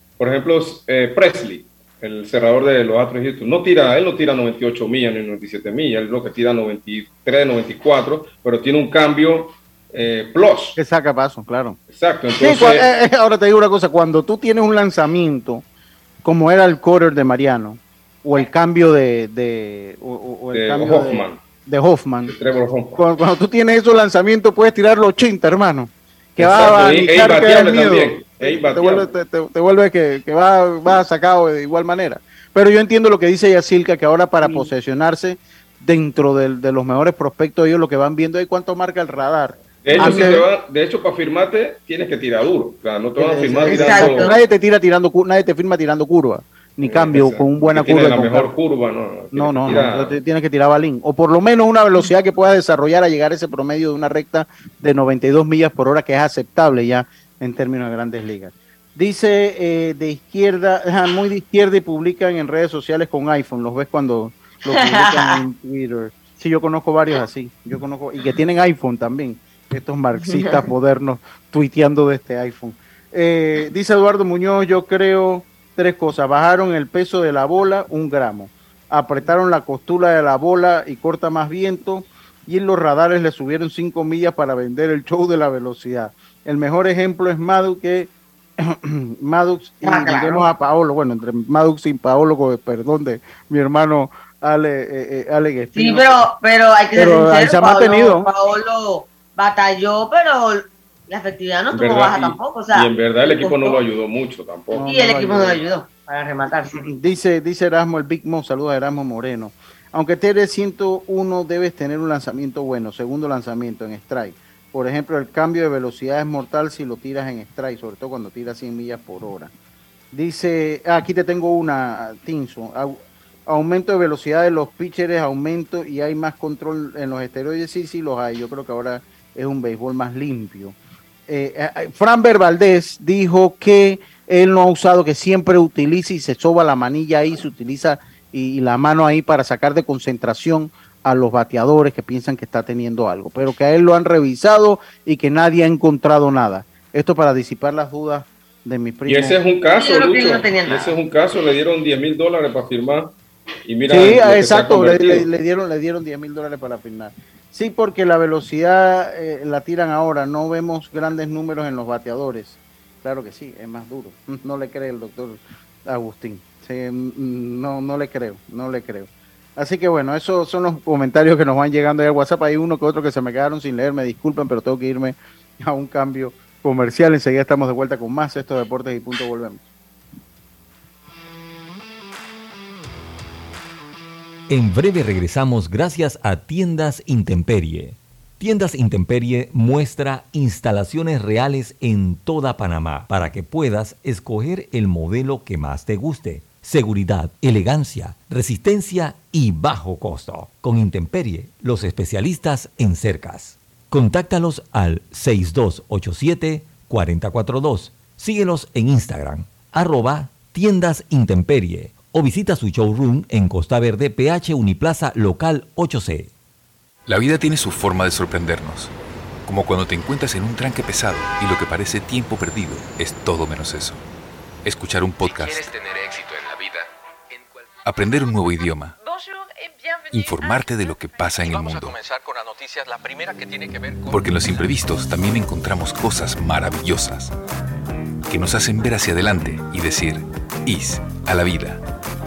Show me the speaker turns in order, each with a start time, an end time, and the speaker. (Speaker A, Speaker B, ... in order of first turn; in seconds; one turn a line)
Speaker A: 0.2-10.8
Speaker B: 10.8-11.8
Speaker A: 11.9-12.9
Speaker B: 12.4-15.6
Speaker B: 16.2-22.3
Speaker A: 20.5-21.4
Speaker A: 22.3-23.0
Speaker B: 23.0-40.5
Speaker A: 26.4-29.1
Speaker C: 34.4-34.7
Speaker A: 39.8-44.3
Speaker C: 39.9-40.3
Speaker B: 43.2-48.5
Speaker C: 43.6-44.4
Speaker A: 46.8-50.2
Speaker B: 49.3-96.3
Speaker C: 64.7-65.4
Speaker C: 70.3-70.6
Speaker C: 89.8-90.5
Speaker C: 95.8-103.8
Speaker B: 97.0-98.3
Speaker A: 101.7-104.9
Speaker B: 104.7-105.6
Speaker C: 104.9-106.8
Speaker B: 106.7-119.5
Speaker B: 120.1-130.8
Speaker B: 131.3-149.4
Speaker A: 149.1-153.1
Speaker C: 149.8-150.9
Speaker A: 153.7-155.3
Speaker B: 153.9-179.6
Speaker D: 184.5-216.3
Speaker E: 217.1-218.9
Speaker E: 219.5-224.0
Speaker E: 224.7-225.7
Speaker F: 225.2-234.5
Speaker E: 227.8-229.0
Speaker E: 230.1-232.0
Speaker E: 234.1-237.3
Speaker E: 238.3-241.8